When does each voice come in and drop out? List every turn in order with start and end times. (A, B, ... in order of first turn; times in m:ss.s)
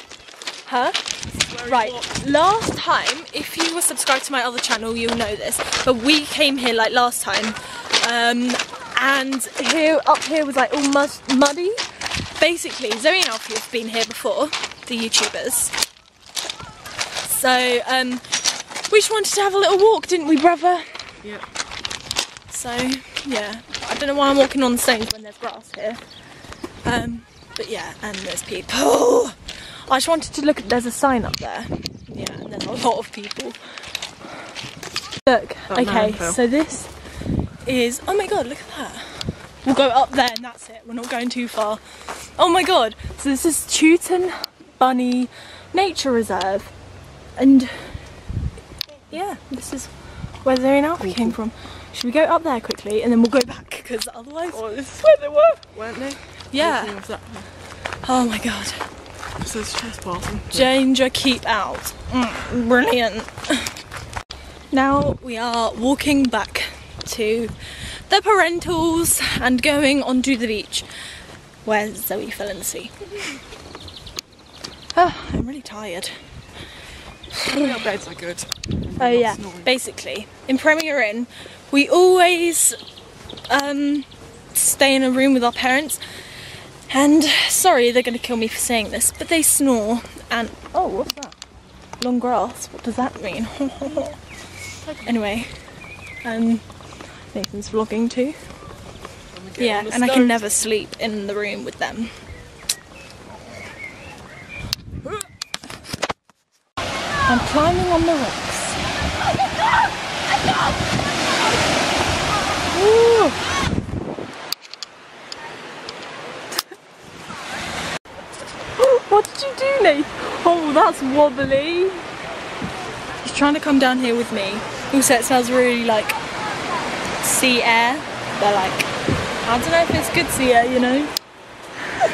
0:00.6-0:15.8 A
0:01.4-0:02.1 B
0:17.2-0:21.2 A
0:21.2-0:21.5 B
0:22.5-0:26.1 A
0:26.8-0:34.3 A
0:35.2-0:46.8 A
0:35.7-0:36.4 B
0:47.3-0:48.3 A
0:49.1-0:54.6 A
0:51.0-0:51.4 B
0:54.5-0:57.5 B
0:56.5-0:57.0 A
0:58.0-0:58.9 A
0:59.4-1:00.7 B
1:00.5-1:03.8 A
1:04.7-1:13.1 A
1:14.9-1:16.5 A
1:17.4-1:19.7 B
1:19.0-1:22.8 A
1:23.5-1:31.4 A
1:32.0-1:38.8 A
1:34.8-1:35.1 B
1:39.3-1:40.4 B
1:39.6-1:42.3 A
1:47.3-1:48.8 A
1:52.7-1:53.4 A
1:58.8-2:02.1 A
2:03.2-2:06.2 A
2:07.2-2:11.1 A